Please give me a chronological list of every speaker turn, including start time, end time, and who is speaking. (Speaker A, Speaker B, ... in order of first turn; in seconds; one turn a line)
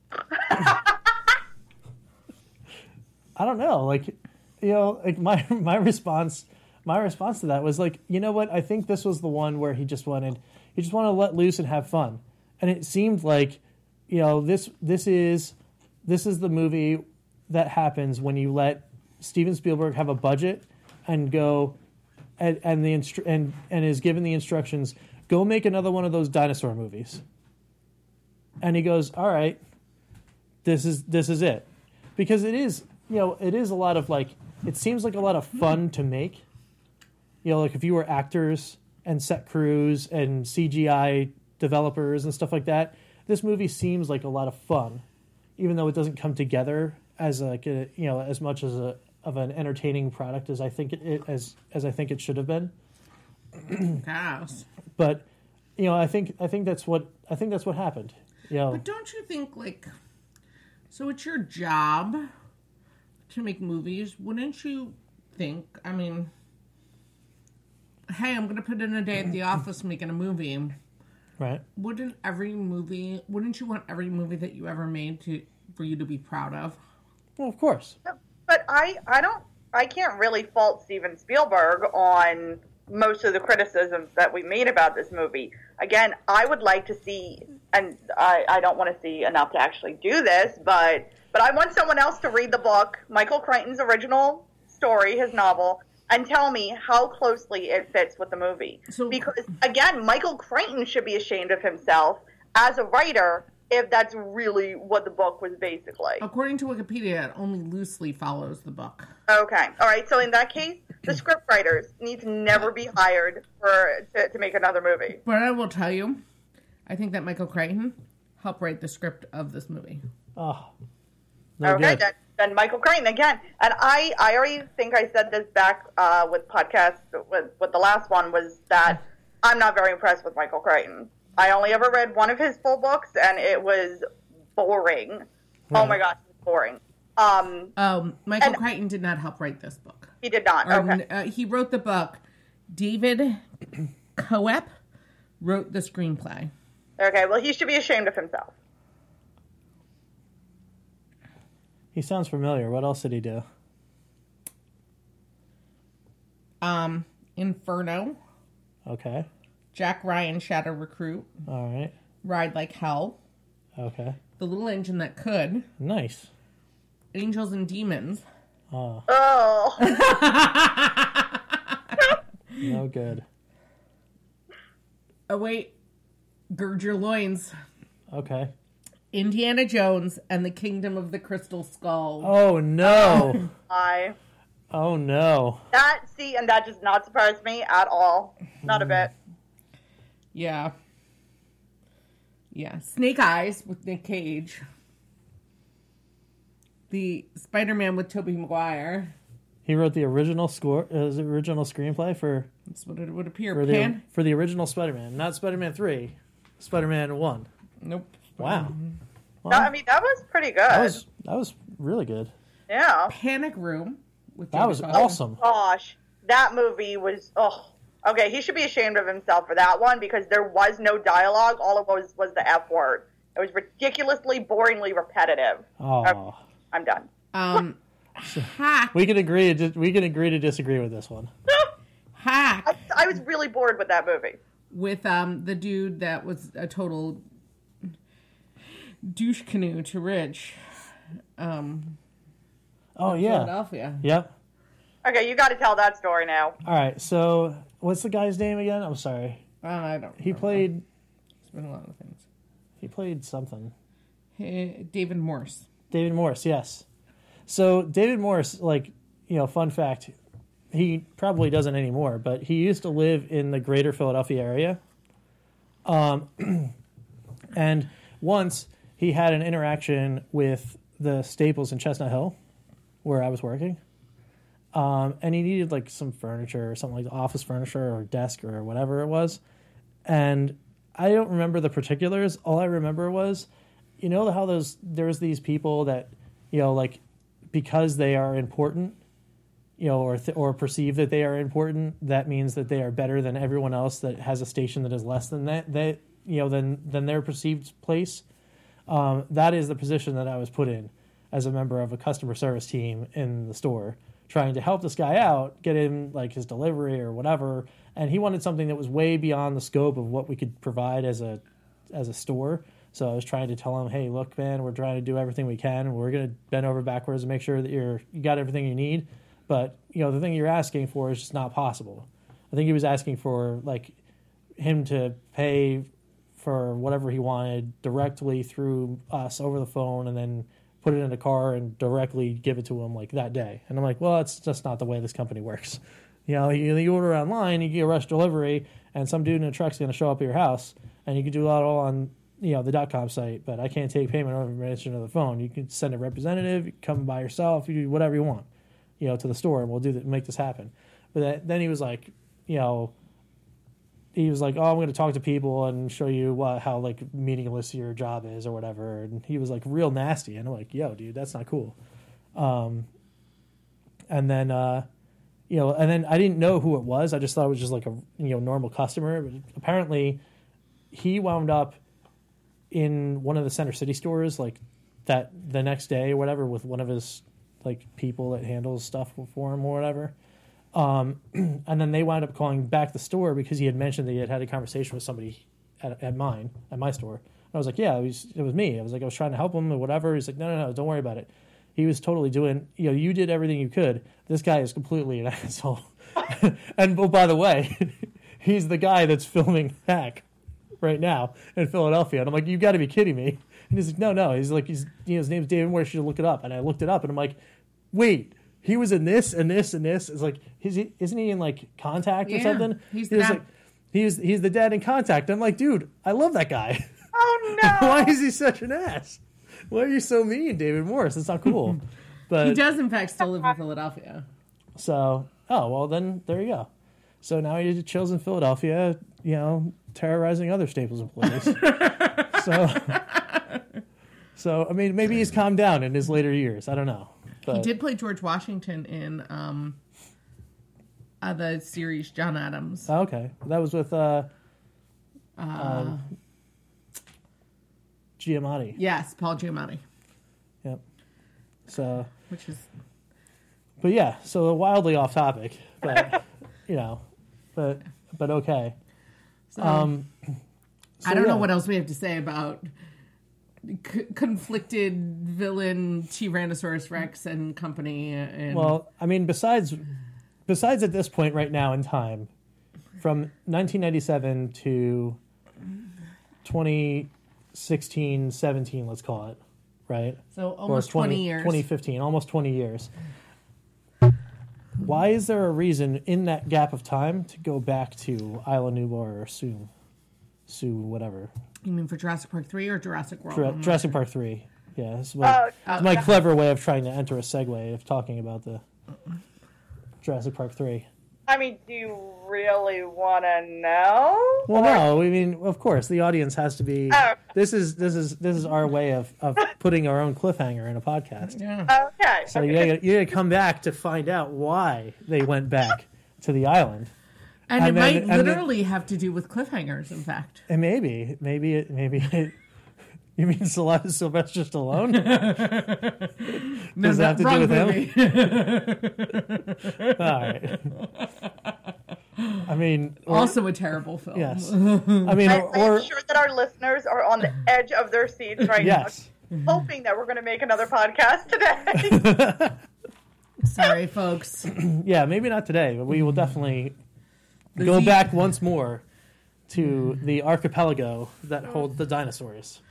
Speaker A: 3.4-21.8
Speaker A: 22.4-27.2
Speaker A: 28.6-29.6
Speaker A: 30.6-36.4
Speaker A: 37.4-45.0
Speaker A: 45.6-52.7
Speaker B: 53.9-54.6
Speaker A: 55.0-55.3
Speaker A: 55.8-58.8
Speaker B: 58.7-59.9
Speaker B: 60.9-62.3
Speaker B: 63.3-66.3
Speaker B: 68.1-70.8
Speaker A: 71.4-71.6
Speaker B: 71.8-76.8
Speaker A: 77.4-78.0
Speaker C: 78.1-106.2
Speaker B: 98.9-99.2
Speaker B: 106.2-109.1
Speaker C: 109.3-115.2
Speaker B: 115.2-116.2
Speaker B: 116.9-120.0
Speaker A: 120.4-120.7
Speaker A: 121.6-122.0
Speaker C: 121.6-137.7
Speaker A: 135.7-136.0
Speaker B: 137.8-140.1
Speaker C: 140.2-141.0
Speaker B: 140.7-143.4
Speaker B: 144.2-144.7
Speaker B: 145.4-146.5
Speaker C: 147.0-148.5
Speaker A: 151.9-153.4
Speaker B: 156.6-158.2
Speaker A: 158.9-159.3
Speaker B: 159.7-161.3
Speaker A: 161.5-161.9
Speaker B: 162.2-163.2
Speaker A: 163.8-164.2
Speaker B: 164.4-165.7
Speaker A: 165.8-166.3
Speaker B: 167.1-168.2
Speaker A: 168.7-169.1
Speaker C: 169.1-169.8
Speaker B: 169.8-172.0
Speaker A: 172.6-173.2
Speaker B: 175.3-175.7
Speaker B: 176.5-177.5
Speaker A: 178.1-178.5
Speaker B: 179.1-182.3
Speaker A: 182.2-183.4
Speaker C: 182.8-184.2
Speaker A: 184.7-185.7
Speaker C: 185.7-189.1
Speaker B: 190.3-190.7
Speaker B: 192.5-194.6
Speaker B: 196.9-199.2
Speaker A: 199.7-202.5
Speaker B: 202.7-204.0
Speaker A: 203.5-207.5
Speaker B: 207.8-208.9
Speaker A: 208.4-208.8
Speaker A: 209.4-209.7
Speaker C: 209.5-211.0
Speaker A: 210.7-212.3
Speaker C: 212.7-213.1
Speaker B: 213.1-215.2
Speaker A: 214.5-215.4
Speaker C: 214.9-226.2
Speaker A: 225.8-226.4
Speaker C: 226.7-227.1
Speaker B: 227.3-228.9
Speaker A: 228.3-231.3
Speaker B: 232.2-232.8
Speaker C: 232.7-234.4
Speaker B: 234.7-237.2
Speaker B: 239.0-240.7
Speaker B: 241.4-242.0
Speaker A: 243.0-244.3
Speaker B: 243.1-244.0
Speaker C: 245.0-246.6
Speaker A: 246.6-249.4
Speaker B: 249.6-250.7
Speaker A: 250.2-250.8
Speaker B: 251.4-252.3
Speaker A: 252.8-253.7
Speaker B: 254.4-255.7
Speaker A: 255.9-256.9
Speaker A: 257.5-260.1
Speaker A: 260.7-264.8
Speaker A: 265.9-266.8
Speaker A: 267.5-272.4
Speaker A: 273.0-273.8
Speaker A: 274.7-279.4
Speaker A: 280.1-283.5
Speaker A: 284.0-289.0
Speaker A: 289.8-298.2
Speaker A: 298.9-324.0
Speaker A: 324.6-348.5
Speaker A: 349.0-352.9
Speaker A: 354.1-361.8
Speaker A: 362.4-362.9
Speaker A: 364.1-364.9
Speaker A: 365.5-370.2
Speaker A: 370.9-371.8
Speaker A: 372.7-380.1
Speaker A: 380.7-400.2
Speaker A: 400.8-407.4
Speaker A: 407.9-416.9
Speaker B: 412.2-413.4
Speaker C: 417.1-418.1
Speaker A: 417.5-422.6
Speaker B: 422.4-424.2
Speaker A: 424.8-426.7
Speaker A: 427.2-433.0
Speaker B: 431.4-433.4
Speaker A: 434.4-437.7
Speaker B: 437.5-439.8
Speaker B: 441.2-442.9
Speaker A: 442.9-444.3
Speaker B: 445.4-446.1
Speaker A: 445.6-446.0
Speaker A: 448.2-448.8
Speaker B: 448.7-449.8
Speaker A: 451.7-452.1
Speaker B: 452.3-452.7
Speaker A: 453.8-457.0
Speaker A: 457.6-458.8
Speaker B: 459.5-459.9
Speaker A: 459.6-460.4
Speaker A: 461.0-461.5
Speaker B: 461.0-462.7
Speaker B: 463.6-468.8
Speaker A: 468.5-469.8
Speaker A: 470.5-472.3
Speaker A: 473.0-475.2
Speaker A: 476.4-482.9
Speaker B: 480.3-481.6
Speaker A: 484.8-489.7
Speaker A: 490.5-491.3
Speaker B: 491.6-494.0
Speaker A: 493.3-498.6
Speaker C: 495.2-496.0
Speaker B: 495.7-496.0
Speaker A: 500.0-500.9
Speaker C: 501.3-504.9
Speaker A: 504.5-511.4
Speaker C: 506.9-507.2
Speaker B: 511.3-511.7
Speaker C: 511.7-512.7
Speaker A: 512.3-516.9
Speaker B: 517.5-520.5
Speaker A: 517.6-518.5
Speaker A: 520.5-522.4
Speaker A: 523.2-525.6
Speaker B: 524.9-531.5
Speaker A: 526.8-527.9
Speaker A: 530.0-530.8
Speaker A: 532.5-533.4
Speaker B: 533.1-535.3
Speaker A: 534.1-535.9
Speaker C: 535.3-542.1
Speaker A: 538.6-539.1
Speaker A: 541.8-542.6
Speaker B: 543.4-544.5
Speaker A: 544.5-546.8
Speaker B: 547.5-548.1
Speaker A: 547.6-548.8
Speaker A: 549.5-552.6